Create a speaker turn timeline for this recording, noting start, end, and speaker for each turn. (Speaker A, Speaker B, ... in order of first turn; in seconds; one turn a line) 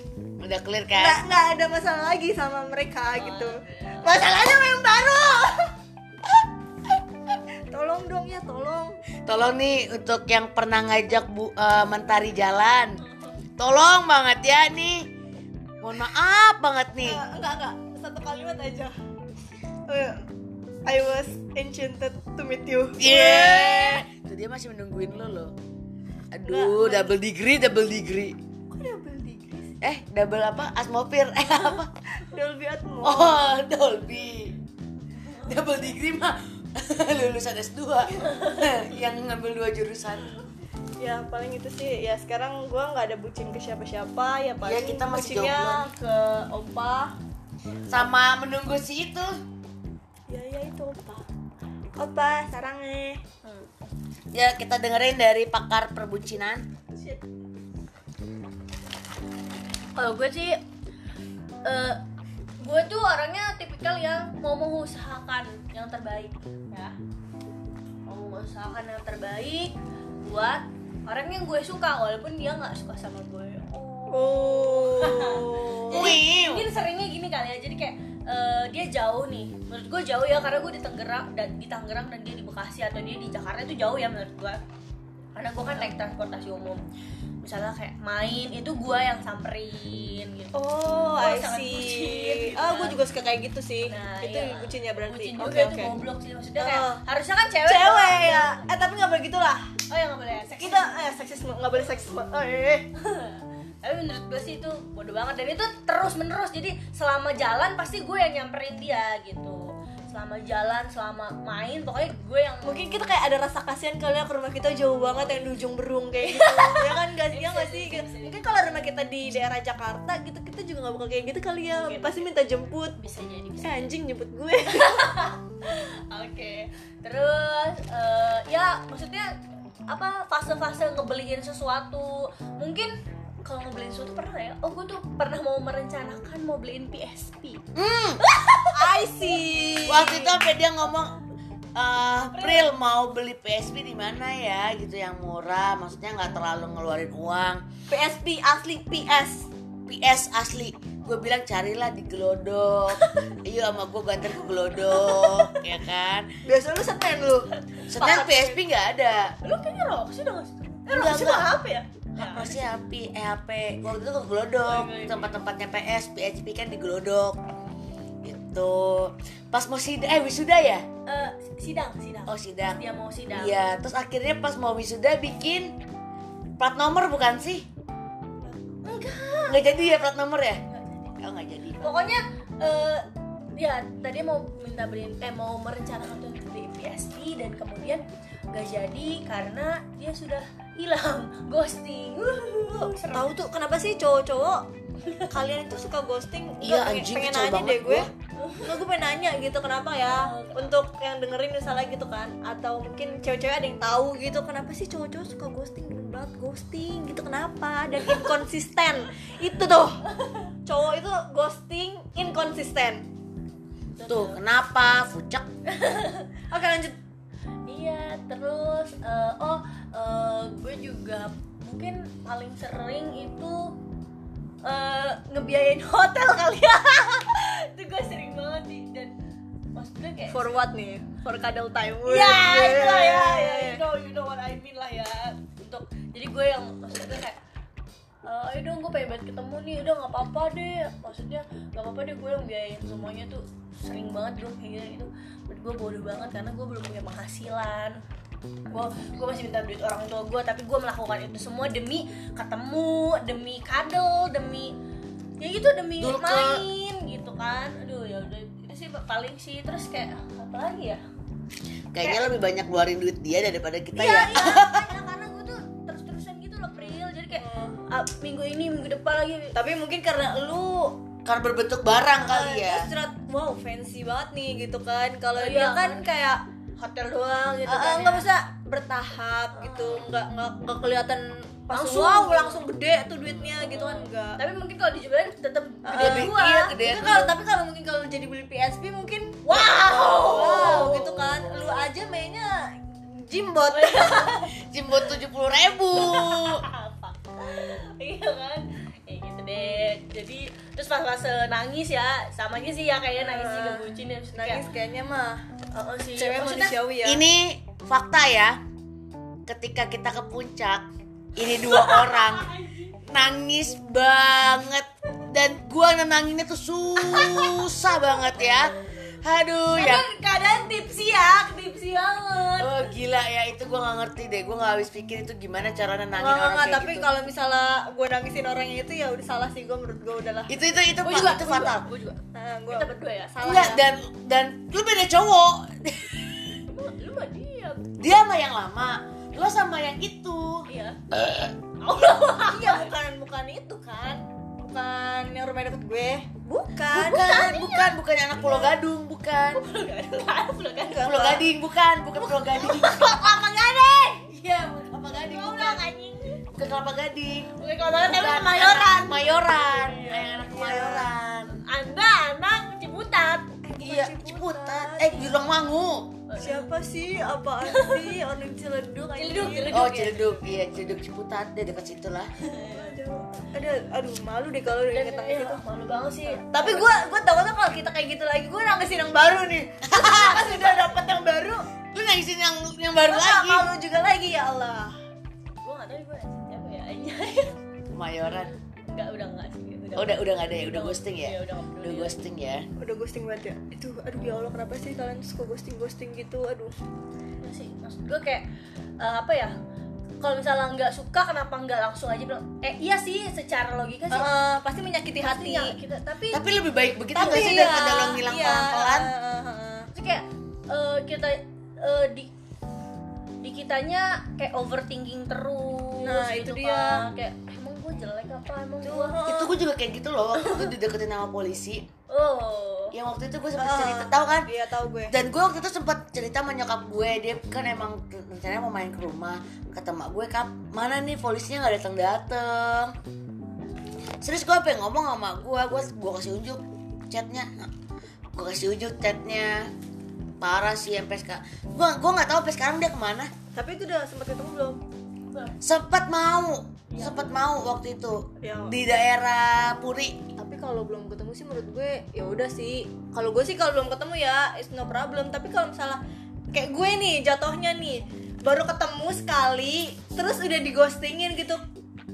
Speaker A: 0.4-1.2
Speaker B: 0.9-5.7
Speaker C: 3.1-4.2
Speaker B: 7.7-9.0
Speaker A: 9.2-13.0
Speaker A: 13.6-15.1
Speaker A: 15.8-17.2
Speaker B: 17.0-18.9
Speaker B: 19.9-20.2
Speaker B: 20.9-24.0
Speaker A: 23.0-25.5
Speaker A: 26.3-28.4
Speaker B: 26.4-27.1
Speaker B: 28.7-29.8
Speaker A: 29.8-31.9
Speaker B: 32.2-33.4
Speaker A: 33.0-34.6
Speaker A: 35.4-40.3
Speaker C: 38.3-38.6
Speaker B: 41.0-47.1
Speaker A: 44.6-45.9
Speaker A: 47.9-49.4
Speaker B: 50.3-51.2
Speaker B: 52.0-53.2
Speaker C: 53.4-53.8
Speaker A: 54.3-56.7
Speaker C: 60.0-60.6
Speaker C: 61.6-62.0
Speaker C: 62.6-67.0
Speaker C: 68.1-84.6
Speaker B: 74.1-76.2
Speaker A: 75.9-76.7
Speaker C: 85.3-86.8
Speaker C: 87.4-90.5
Speaker B: 90.5-96.0
Speaker C: 91.2-93.0
Speaker C: 93.9-98.6
Speaker B: 96.6-97.0
Speaker B: 97.7-99.7
Speaker C: 99.9-100.9
Speaker B: 100.6-102.9
Speaker C: 103.0-112.8
Speaker B: 112.6-123.0
Speaker C: 115.1-115.5
Speaker C: 116.2-118.5
Speaker C: 121.7-122.3
Speaker C: 123.0-123.9
Speaker B: 123.6-125.2
Speaker C: 124.7-129.3
Speaker C: 129.9-137.6
Speaker A: 137.7-138.2
Speaker C: 138.2-139.3
Speaker B: 138.7-140.3
Speaker A: 139.9-141.2
Speaker A: 141.7-147.6
Speaker C: 142.3-142.7
Speaker B: 147.9-149.5
Speaker A: 149.9-156.3
Speaker B: 154.9-155.3
Speaker B: 156.4-158.6
Speaker A: 157.9-159.3
Speaker C: 159.4-162.6
Speaker A: 160.9-161.5
Speaker A: 162.2-167.4
Speaker C: 164.6-165.3
Speaker A: 168.2-170.8
Speaker C: 171.1-173.6
Speaker A: 172.3-172.8
Speaker A: 173.3-175.8
Speaker A: 176.6-177.7
Speaker B: 178.4-178.7
Speaker C: 178.8-179.9
Speaker A: 179.5-180.6
Speaker C: 180.7-181.1
Speaker A: 181.2-181.9
Speaker C: 181.8-193.3
Speaker B: 192.7-194.7
Speaker B: 195.3-198.1
Speaker A: 196.6-198.1
Speaker C: 198.4-198.7
Speaker B: 198.6-210.0
Speaker C: 200.0-200.8
Speaker C: 210.1-210.5
Speaker B: 210.7-213.1
Speaker C: 213.9-214.4
Speaker A: 214.0-215.5
Speaker C: 215.7-216.3
Speaker B: 216.5-216.9
Speaker C: 217.7-223.8
Speaker C: 224.6-229.2
Speaker C: 229.7-230.5
Speaker B: 230.3-233.8
Speaker C: 232.1-237.4
Speaker C: 238.2-248.0
Speaker C: 248.7-254.8
Speaker C: 255.4-261.0
Speaker A: 256.0-256.6
Speaker A: 261.9-264.9
Speaker C: 262.0-262.3
Speaker C: 263.9-269.6
Speaker B: 267.3-267.8
Speaker B: 269.5-271.0
Speaker A: 271.2-272.9
Speaker B: 272.2-276.4
Speaker C: 275.4-276.0
Speaker C: 276.8-278.3
Speaker B: 277.6-284.4
Speaker C: 279.6-280.0
Speaker C: 281.7-282.6
Speaker C: 283.6-286.7
Speaker B: 285.8-294.4
Speaker A: 285.9-287.3
Speaker C: 289.4-291.2
Speaker C: 293.7-294.5
Speaker A: 294.5-296.6
Speaker C: 295.9-304.6
Speaker B: 303.2-305.4
Speaker C: 305.7-306.8
Speaker B: 306.1-307.2
Speaker A: 307.0-308.6
Speaker A: 309.5-312.5
Speaker C: 311.4-312.9
Speaker A: 313.1-320.1
Speaker C: 317.0-318.5
Speaker C: 319.7-322.9
Speaker A: 322.6-327.1
Speaker B: 326.1-330.5
Speaker A: 330.5-331.9
Speaker C: 331.0-333.8
Speaker B: 332.3-333.8
Speaker A: 333.4-336.6
Speaker C: 336.7-337.8
Speaker A: 338.0-341.5
Speaker C: 340.7-341.0
Speaker C: 341.8-342.9
Speaker B: 342.4-347.4
Speaker A: 346.9-349.6
Speaker C: 347.1-347.9
Speaker C: 349.5-351.3
Speaker B: 350.9-351.5
Speaker A: 351.0-353.3
Speaker C: 352.2-354.3
Speaker A: 354.3-355.9
Speaker C: 355.0-356.4
Speaker A: 356.5-361.6
Speaker C: 357.6-360.4
Speaker B: 360.4-361.1
Speaker C: 361.5-363.5
Speaker B: 363.6-365.3
Speaker A: 363.8-366.2
Speaker C: 366.3-366.7
Speaker B: 366.4-370.1
Speaker C: 367.6-368.1
Speaker C: 369.1-370.4
Speaker A: 369.7-372.3
Speaker C: 372.4-372.9
Speaker B: 372.6-375.6
Speaker C: 374.9-376.9
Speaker B: 376.4-381.7
Speaker A: 379.8-380.8
Speaker A: 381.9-383.7
Speaker B: 383.0-384.9
Speaker C: 385.6-387.6
Speaker A: 387.9-388.5
Speaker C: 388.9-392.1
Speaker A: 389.9-392.7
Speaker B: 392.8-396.7
Speaker C: 397.4-398.5
Speaker C: 399.0-399.5
Speaker C: 400.2-404.3
Speaker B: 404.1-405.8
Speaker C: 405.2-406.4
Speaker A: 406.3-409.1
Speaker B: 407.1-409.9
Speaker C: 407.1-407.8
Speaker C: 409.9-412.3
Speaker C: 413.4-419.2
Speaker B: 416.0-417.0
Speaker B: 418.8-419.5
Speaker A: 419.2-421.9
Speaker C: 420.4-420.7
Speaker C: 422.1-422.9
Speaker A: 422.9-424.5
Speaker B: 423.6-425.1
Speaker A: 425.1-432.9
Speaker A: 434.2-437.7
Speaker A: 438.3-439.7
Speaker A: 440.4-443.3
Speaker B: 443.5-444.8
Speaker C: 445.3-445.6
Speaker A: 445.6-450.2
Speaker C: 446.9-447.2
Speaker B: 448.4-448.8
Speaker B: 450.4-456.0
Speaker B: 456.5-461.6